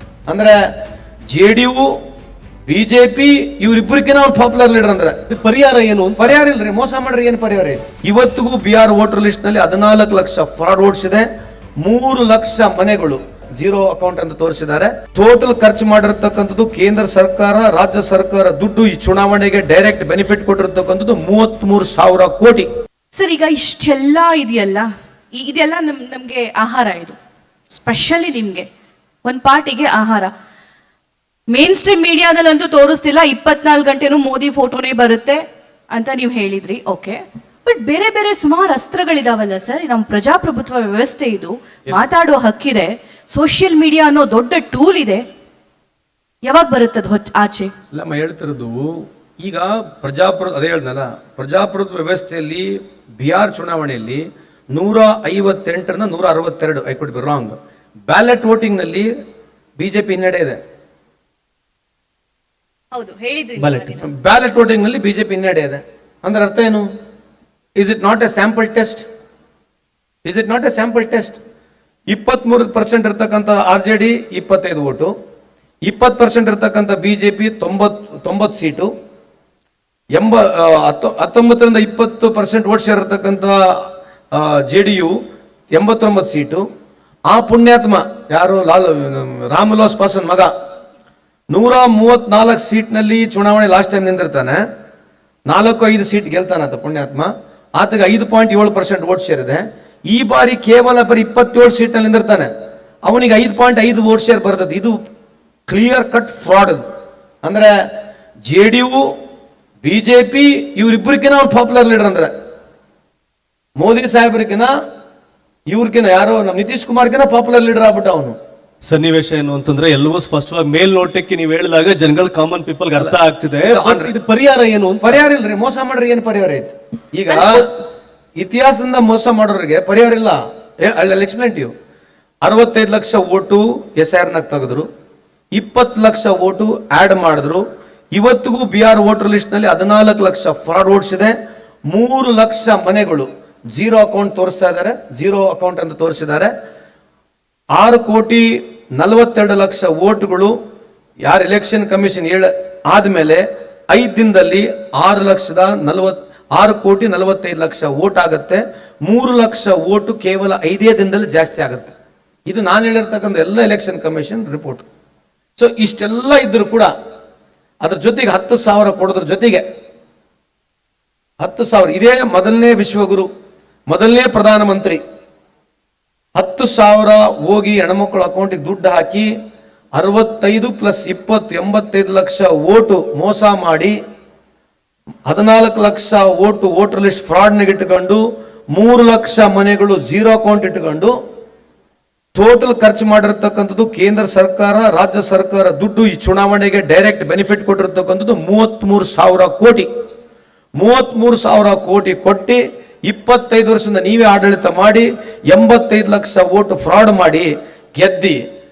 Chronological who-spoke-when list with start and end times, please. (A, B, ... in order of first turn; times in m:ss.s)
0:00.3-0:00.7 A
0:01.3-0:02.0 A
0:02.7-0:05.2 A
0:05.3-0:06.4 B
0:06.2-0:11.3 A
0:11.8-0:22.7 A
0:23.1-0:27.2 C
0:27.7-0:28.6 C
0:29.2-0:30.3 C
0:31.5-0:45.2 C
0:46.4-0:47.7 C
0:47.9-0:57.6 A
0:58.1-0:59.1 A
0:59.8-1:00.6 A
1:02.9-1:04.1 C
1:03.7-1:06.9 A
1:07.8-1:09.0 A
1:10.2-1:11.4 A
1:12.1-1:15.1 A
1:15.8-1:18.9 A
1:20.1-1:25.1 A
1:25.7-1:26.6 A
1:27.3-1:30.5 A
1:31.5-1:34.6 A
1:35.5-1:42.5 A
1:43.0-1:45.0 A
1:45.7-1:46.8 A
1:47.4-1:47.7 A
1:48.4-1:49.1 A
1:49.8-1:52.3 A
1:53.8-1:54.7 A
1:55.7-1:58.4 A
1:58.8-2:05.2 B
2:03.0-2:04.1 A
2:05.0-2:07.7 A
2:08.4-2:11.7 A
2:12.4-2:14.9 A
2:15.5-2:21.4 A
2:21.9-2:26.5 A
2:27.7-2:30.5 A
2:31.2-2:41.9 A
2:42.5-2:44.8 A
2:45.6-2:46.9 A
2:47.8-2:49.6 A
2:51.4-2:53.3 A
2:53.9-2:55.0 A
2:56.4-2:59.3 A
3:00.0-3:04.0 A
3:05.2-3:11.1 A
3:12.3-3:19.9 A
3:20.8-3:28.4 A